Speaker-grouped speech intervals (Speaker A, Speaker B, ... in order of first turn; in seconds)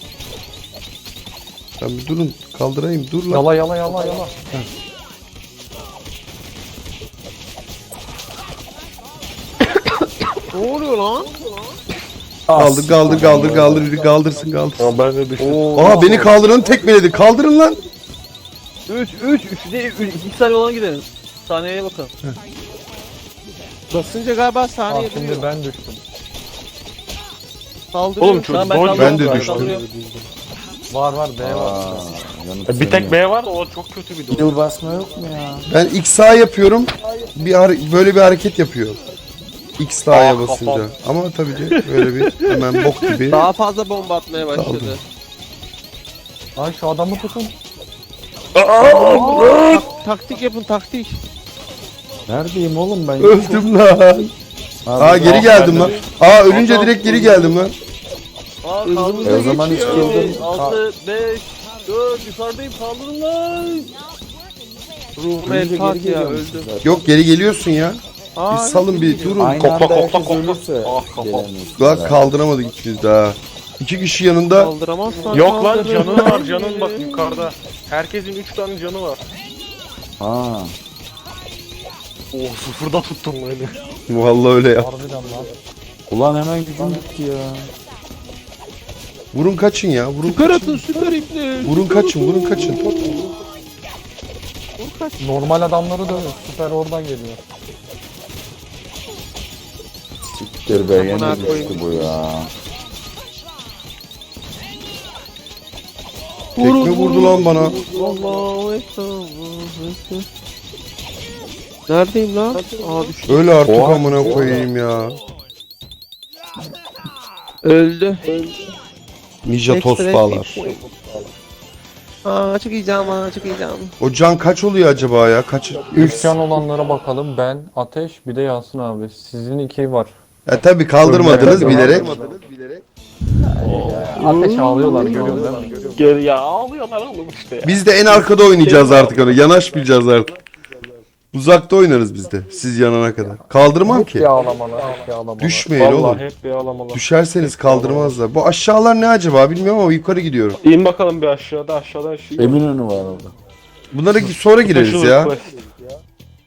Speaker A: 1.8-3.5, 12.5-14.9, 15.7-17.8, 28.9-29.8, 35.7-39.0, 39.8-43.5, 44.5-44.9, 48.5-49.8, 53.2-54.3, 55.0-57.7, 66.8-69.7, 71.8-74.7, 84.1-84.9, 89.3-91.0, 91.6-93.1, 106.6-107.8, 113.2-115.2, 119.4-120.6, 124.0-126.4, 130.4-132.8, 137.6-140.3, 141.3-144.3, 145.4-146.2, 146.9-150.6, 153.9-155.3
Speaker B: 3.3-4.3, 24.9-26.0, 30.9-32.2, 46.5-47.5, 84.8-85.5, 95.2-97.4, 125.9-130.1, 131.0-132.2, 133.8-135.8, 143.8-145.7
Speaker C: 10.5-11.3, 23.9-25.5, 27.9-28.7, 43.3-45.0, 48.8-51.2, 58.8-60.4, 65.2-66.7, 68.3-69.5, 74.5-77.5, 90.2-93.2, 94.8-95.4, 100.9-102.2, 106.5-110.2, 111.9-113.8, 117.6-118.4, 119.7-120.8, 122.2-123.9, 134.3-135.3
Speaker D: 12.5-13.9, 31.4-33.2, 34.3-35.7, 52.3-53.7, 54.8-56.0, 59.2-60.8, 65.4-67.0, 69.3-72.3, 80.2-80.7, 86.1-87.7, 100.2-102.5, 133.6-134.2, 152.4-153.3
Speaker E: 14.8-15.9, 28.2-30.3, 32.6-34.6, 40.1-40.9, 41.8-42.0, 55.2-57.0, 69.5-71.5, 75.3-79.2, 82.3-83.8, 131.3-131.7, 133.6-134.2, 135.9-139.5, 145.7-148.2, 150.6-152.6, 154.7-155.5
Speaker F: 15.4-16.3, 18.9-22.1, 28.5-29.8, 57.0-57.5, 58.6-64.0